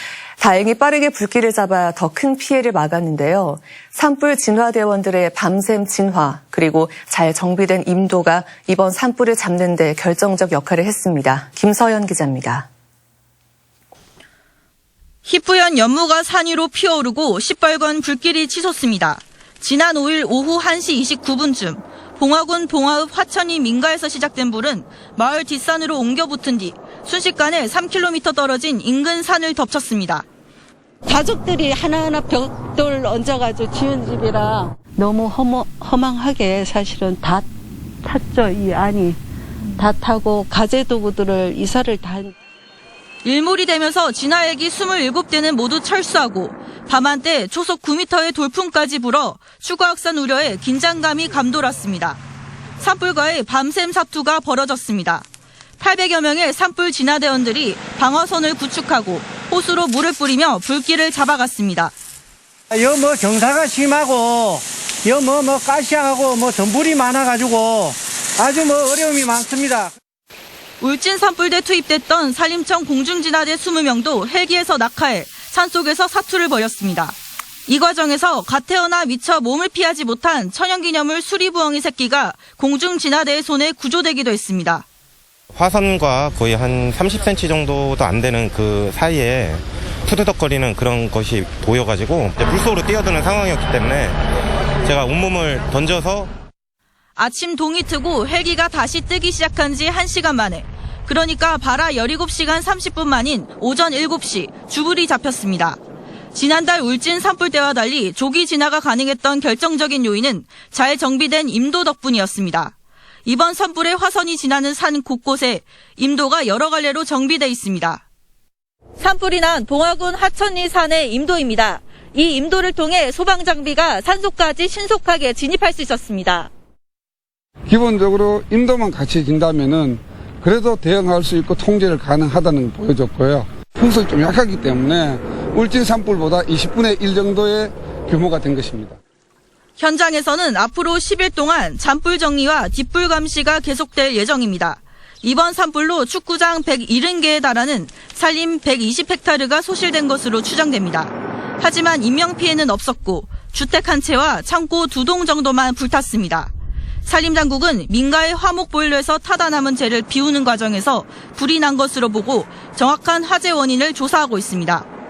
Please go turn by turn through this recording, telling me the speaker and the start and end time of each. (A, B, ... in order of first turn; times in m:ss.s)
0:00.4-0:12.7 A
0:15.2-0:30.2 B
0:31.0-0:37.4 C
0:38.0-0:39.2 C
0:39.8-0:42.3 C
0:43.2-0:52.2 B
0:52.8-0:55.2 B
0:55.8-1:01.9 B
1:02.7-1:09.9 D
1:10.8-1:17.2 B
1:17.7-1:24.8 B
1:25.5-1:34.2 E
1:34.8-1:36.3 E
1:37.2-1:45.8 B
1:46.3-1:52.7 B
1:53.2-1:58.0 B
1:59.0-2:06.5 B
2:07.7-2:19.0 F
2:19.8-2:36.5 B
2:37.0-2:44.9 B